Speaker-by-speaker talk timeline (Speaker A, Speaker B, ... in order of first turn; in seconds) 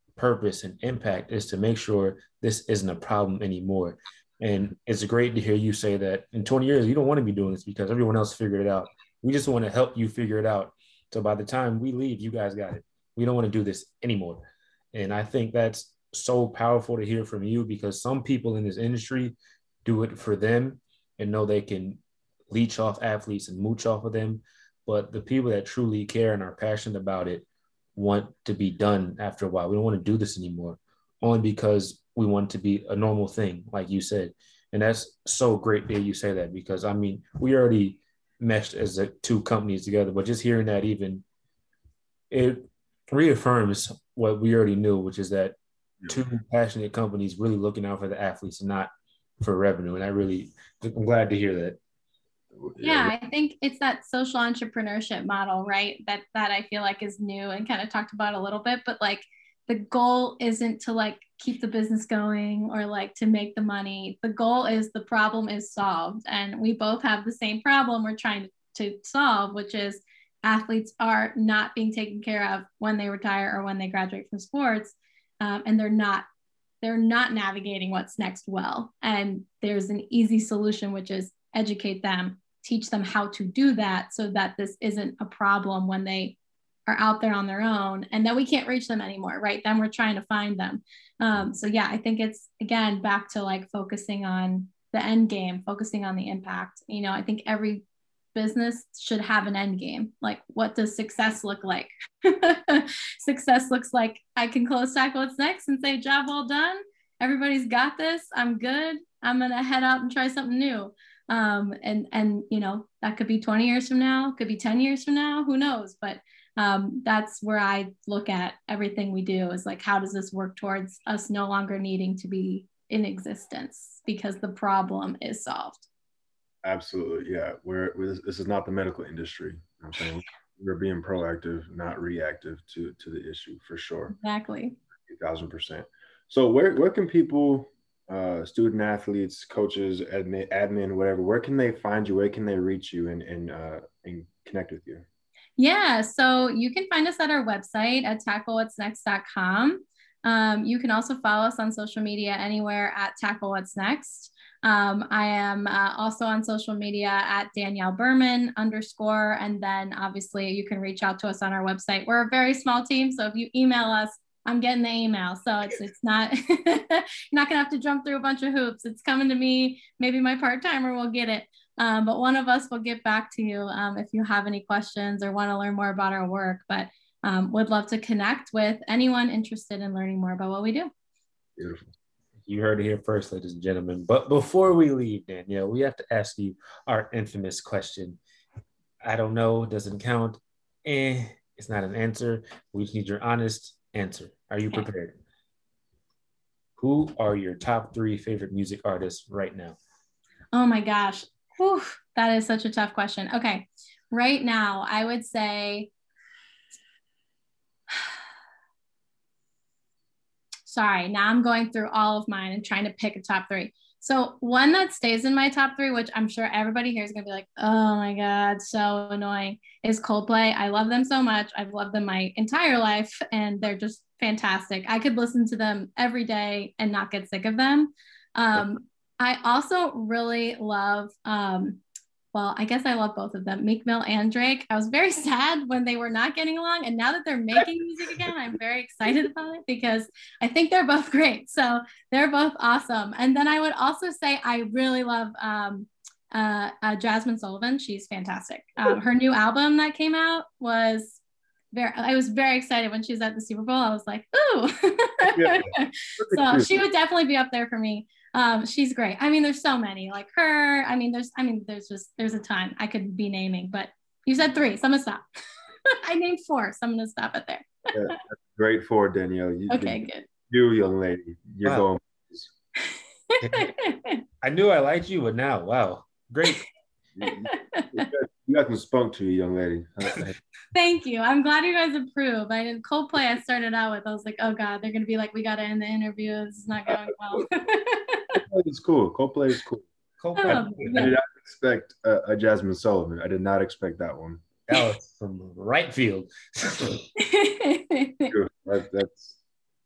Speaker A: 0.2-41.2, 42.3-45.5, 46.1-51.8, 182.5-188.2, 189.0-195.2, 196.8-199.8, 273.4-273.7, 274.4-276.6, 290.2-291.1, 294.7-297.1
Speaker B: 52.5-53.1, 126.6-134.2, 135.1-145.1, 181.6-181.9, 255.4-256.7, 267.9-272.5, 277.2-280.4, 288.4-289.9, 290.4-294.4, 298.3-299.4
Speaker C: 52.8-76.3, 76.8-125.9, 134.1-134.8, 145.6-180.9, 200.5-205.9, 210.7-231.8, 232.3-251.2, 251.7-265.2, 265.9-268.2, 269.7-270.2, 272.8-274.2, 277.2-278.1, 280.7-288.4, 290.4-291.1, 297.2-298.3